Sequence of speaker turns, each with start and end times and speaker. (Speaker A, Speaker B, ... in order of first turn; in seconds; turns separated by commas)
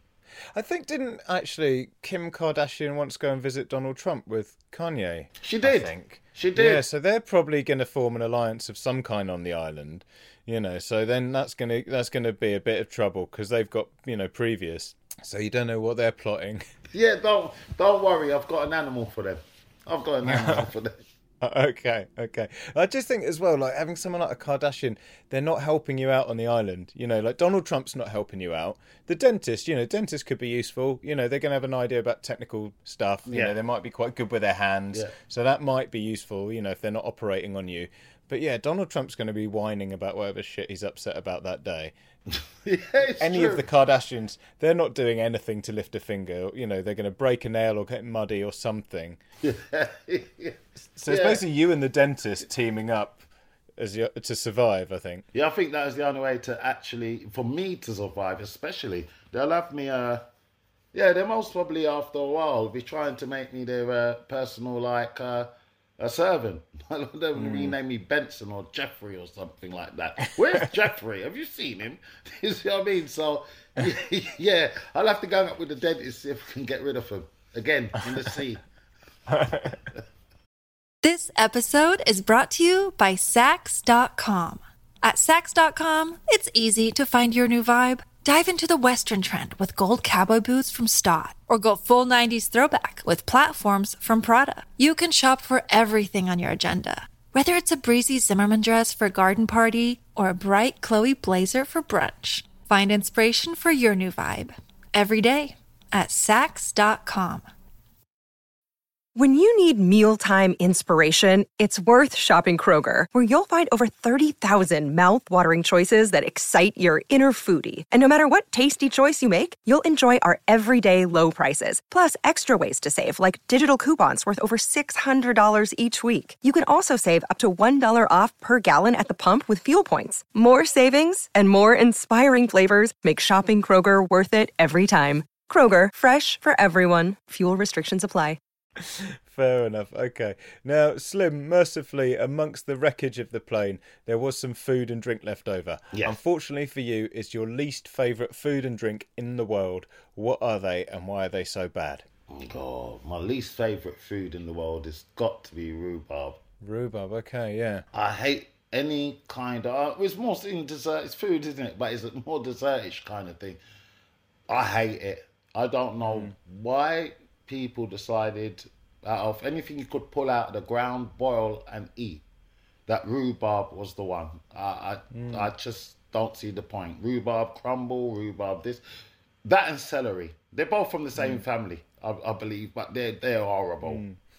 Speaker A: 0.5-16.6, Speaker B: 5.4-6.8, Speaker B: 16.9-21.0, Speaker A: 20.2-20.7, Speaker A: 21.4-41.9, Speaker B: 33.3-33.5, Speaker B: 42.6-43.6, Speaker A: 43.2-49.2, Speaker B: 49.4-51.4, Speaker A: 50.9-53.2, Speaker A: 53.8-55.2, Speaker B: 55.3-60.2, Speaker B: 60.9-78.6, Speaker A: 67.3-67.8, Speaker A: 79.3-79.8, Speaker B: 79.5-80.0, Speaker C: 81.0-107.5, Speaker D: 109.2-138.4, Speaker A: 138.8-152.0, Speaker B: 152.3-156.4, Speaker A: 156.6-157.8, Speaker B: 157.9-163.6, Speaker B: 164.5-172.2, Speaker A: 166.0-166.3, Speaker B: 172.9-178.8, Speaker A: 175.1-175.5, Speaker B: 179.4-184.0, Speaker A: 181.1-181.4, Speaker A: 183.8-184.2